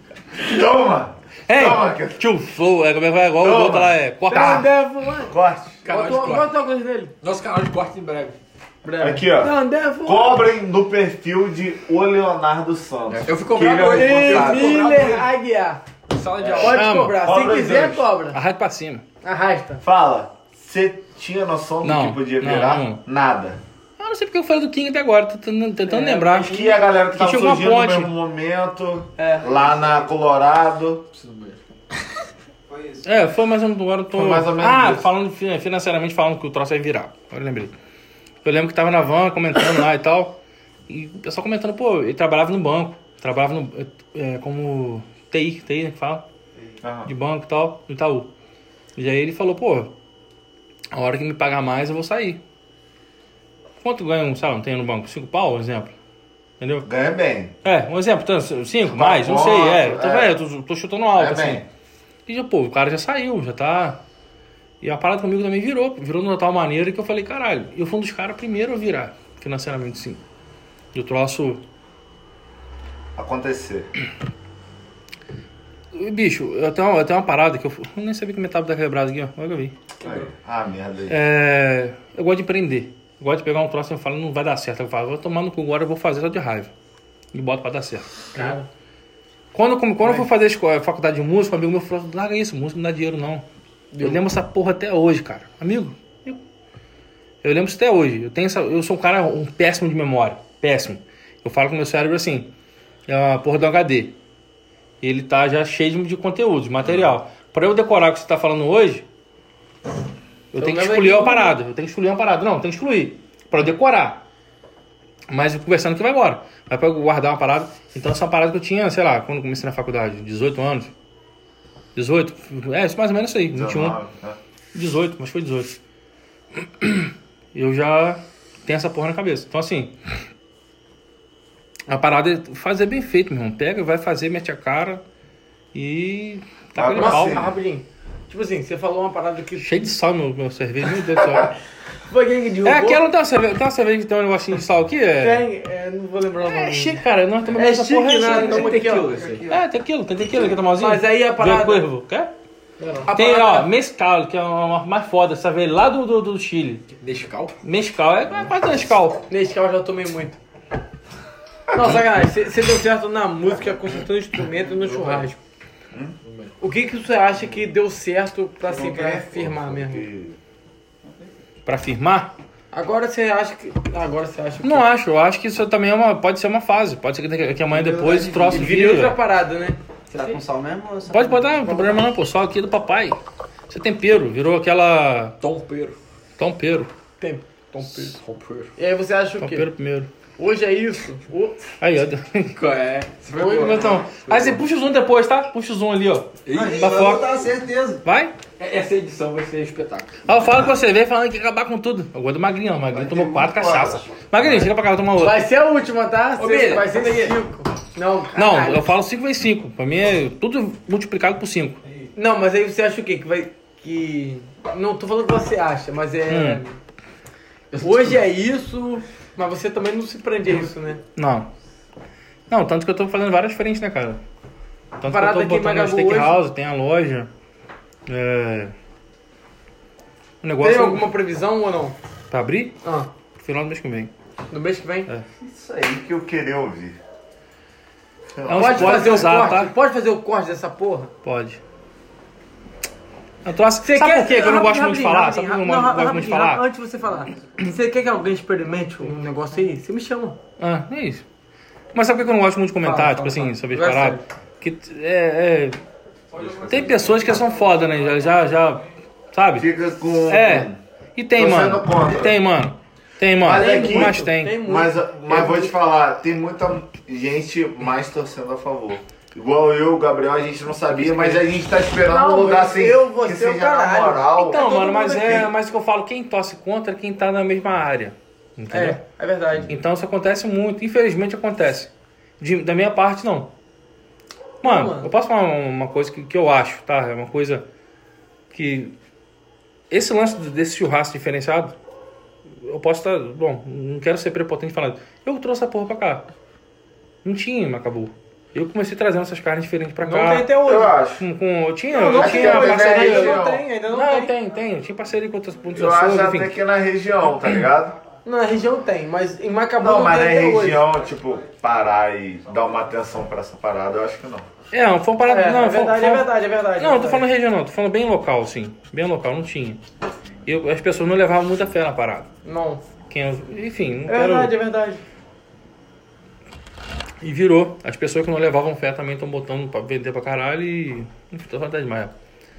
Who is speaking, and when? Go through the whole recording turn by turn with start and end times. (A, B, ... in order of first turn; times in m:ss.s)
0:00.3-0:02.2 A
0:01.5-0:04.6 B
0:03.4-0:04.7 A
0:04.3-0:05.3 C
0:05.3-0:05.9 A
0:05.8-0:06.5 D
0:05.9-0:07.1 C
0:07.2-0:08.4 D
0:08.8-0:10.4 C
0:09.0-0:14.9 A
0:13.1-0:15.3 D
0:13.6-0:15.8 C
0:16.1-0:16.8 D
0:16.4-0:18.1 A
0:16.6-0:18.4 C
0:16.6-0:17.2 B
0:18.3-0:19.0 B
0:19.2-0:19.8 C
0:19.8-0:23.6 A
0:21.8-0:23.0 B
0:24.0-0:28.1 B
0:25.9-0:26.7 C
0:26.3-0:31.0 A
0:29.2-0:29.4 C
0:31.1-0:31.6 D
0:32.7-0:33.1 E
0:33.0-0:37.7 B
0:34.1-0:35.1 A
0:38.4-0:40.4 B
0:40.9-0:46.2 B
0:46.8-0:47.1 A
0:47.0-0:48.3 B
0:49.0-0:49.9 B
0:50.9-0:52.4 B
0:53.8-0:55.9 B
0:56.6-0:56.9 B
0:56.8-0:57.6 A
0:57.6-1:01.6 B
0:58.9-1:00.4 A
1:01.2-1:01.6 A
1:02.3-1:04.0 B
1:04.8-1:10.2 B
1:10.9-1:11.6 B
1:13.2-1:13.9 A
1:15.9-1:19.8 B
1:20.0-1:20.3 D
1:20.0-1:21.2 A
1:21.1-1:26.7 B
1:27.3-1:28.2 B
1:28.3-1:28.7 C
1:29.5-1:33.4 B
1:33.9-1:34.2 C
1:34.0-1:36.4 B
1:37.4-1:42.5 B
1:43.1-1:44.1 B
1:45.0-1:49.0 B
1:46.8-1:47.1 A
1:50.5-1:54.2 B
1:50.6-1:51.6 C
1:55.3-2:00.9 B
2:02.0-2:04.0 B
2:03.5-2:04.4 A
2:04.7-2:05.8 B
2:06.6-2:10.2 B
2:11.9-2:15.0 B
2:15.7-2:17.5 B
2:16.8-2:17.5 A
2:17.0-2:19.7 C
2:19.6-2:21.5 B
2:22.1-2:23.0 C
2:22.6-2:25.4 B
2:25.2-2:27.0 C
2:26.4-2:28.7 B
2:27.5-2:29.2 C
2:28.2-2:29.5 D
2:28.8-2:29.7 E
2:29.5-2:32.3 B
2:30.3-2:31.8 C
2:32.8-2:33.1 D
2:33.0-2:33.7 C
2:33.1-2:36.9 B
2:37.0-2:37.5 D
2:37.6-2:39.2 B
2:39.3-2:40.4 C
2:41.7-2:45.4 C
2:41.8-2:42.1 B
2:44.7-2:45.3 D
2:46.2-2:46.5 D
2:46.6-2:50.1 C
2:48.7-2:50.4 A
2:51.7-2:52.3 B
2:52.7-2:54.9 C
2:54.6-2:59.2 B
2:57.7-2:58.7 E
2:58.4-3:00.2 C
3:00.1-3:01.9 E
3:01.1-3:03.2 B
3:03.7-3:05.4 B
3:05.4-3:06.0 D
3:06.4-3:06.9 B
3:07.2-3:08.2 C
3:07.8-3:08.7 D
3:08.8-3:09.7 C
3:09.4-3:10.1 B
3:10.4-3:11.6 C
3:11.8-3:12.6 B
3:12.6-3:14.6 D
3:13.4-3:13.8 C
3:13.4-3:17.3 B
3:16.5-3:17.1 D
3:16.5-3:18.0 E
3:18.0-3:18.3 B
3:18.6-3:20.4 D
3:20.3-3:25.4 B
3:22.9-3:24.0 E
3:25.2-3:28.9 C
3:26.4-3:27.4 B
3:28.4-3:31.8 B
3:32.2-3:36.8 C
3:36.3-3:36.6 B
3:37.7-3:38.2 D
3:37.8-3:41.0 C
3:41.2-3:41.5 B
3:42.5-3:44.2 B
3:45.0-3:47.3 B
3:45.0-3:46.4 C
3:48.1-3:48.7 B
3:50.4-3:51.0 B
3:50.6-3:52.0 C
3:52.3-3:52.8 B
3:53.4-3:54.1 B
3:54.5-3:55.1 C
3:55.4-3:57.0 A
3:58.4-3:59.3 A
3:58.4-3:59.7 B
3:58.6-4:01.1 C
4:01.2-4:01.6 B
4:03.4-4:06.6 B
4:03.8-4:10.4 C
4:10.6-4:11.2 B
4:11.9-4:15.8 B
4:12.8-4:14.2 C
4:16.4-4:17.4 E
4:16.4-4:17.6 D
4:16.7-4:19.7 B
4:19.6-4:20.8 A
4:20.3-4:24.6 B
4:21.4-4:22.4 A
4:23.4-4:35.5 A
4:23.5-4:25.7 C
4:31.0-4:31.4 B
4:32.1-4:35.5 C
4:34.4-4:39.0 B
4:38.7-4:39.8 C
4:39.7-4:43.5 B
4:44.6-4:45.1 C
4:44.6-4:47.6 B
4:48.5-4:48.9 B
4:49.9-4:51.7 B
4:52.6-4:56.2 B
4:57.2-5:00.5 B
5:00.0-5:00.9 C
5:00.6-5:01.2 A
5:01.2-5:06.6 B
5:01.9-5:04.3 C
5:02.2-5:03.6 A
5:05.7-5:08.0 A
5:08.2-5:10.9 C
5:09.8-5:14.5 A
5:14.7-5:19.8 B
5:15.2-5:17.2 C
5:20.4-5:22.3 B
5:22.4-5:22.8 C
5:23.1-5:24.5 B
5:24.1-5:25.0 C
5:27.2-5:32.1 B